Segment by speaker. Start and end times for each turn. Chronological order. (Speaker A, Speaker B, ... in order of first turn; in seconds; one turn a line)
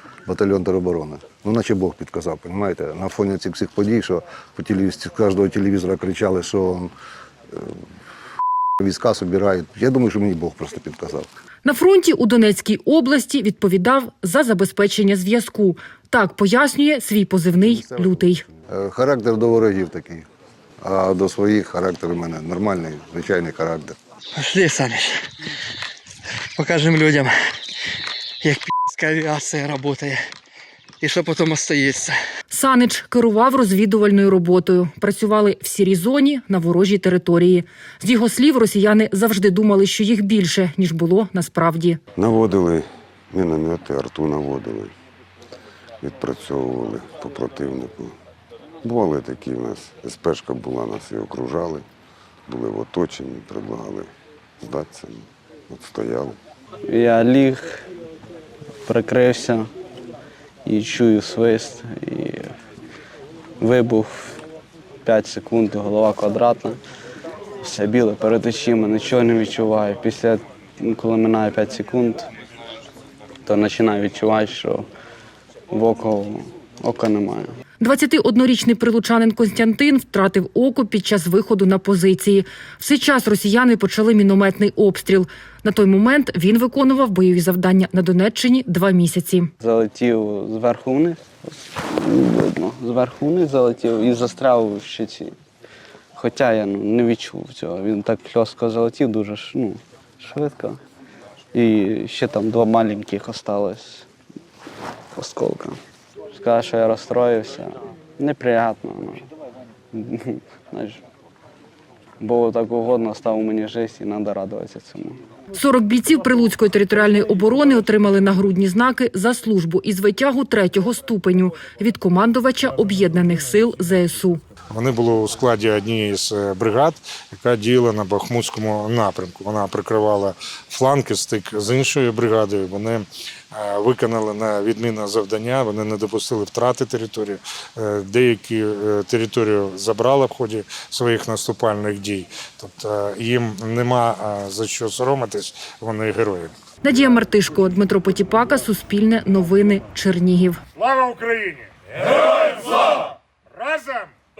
Speaker A: 0.3-6.9
Speaker A: 7.5-7.8
Speaker A: 8.8-11.3
Speaker B: 11.7-18.4
Speaker A: 17.6-20.2
Speaker A: 20.8-24.0
Speaker C: 24.4-25.3
Speaker C: 26.6-27.4
Speaker C: 28.4-30.2
Speaker C: 31.0-32.2
Speaker B: 32.5-42.0
Speaker D: 42.2-44.9
Speaker D: 46.0-48.2
Speaker D: 48.8-51.9
Speaker D: 52.5-56.4
Speaker E: 56.9-57.9
Speaker E: 58.8-59.7
Speaker E: 60.6-62.5
Speaker E: 63.6-64.4
Speaker E: 65.0-66.8
Speaker E: 67.6-72.3
Speaker E: 73.4-74.9
Speaker E: 75.7-77.5
Speaker B: 77.8-89.5
Speaker E: 89.6-95.4
Speaker E: 96.2-100.8
Speaker E: 101.5-104.1
Speaker E: 105.2-105.8
Speaker E: 106.3-109.3
Speaker E: 109.9-111.0
Speaker E: 112.2-115.2
Speaker B: 115.5-124.4
Speaker F: 124.8-133.1
Speaker F: 133.6-146.5
Speaker B: 146.8-150.6
Speaker F: 150.8-151.7
Speaker F: 153.7-154.0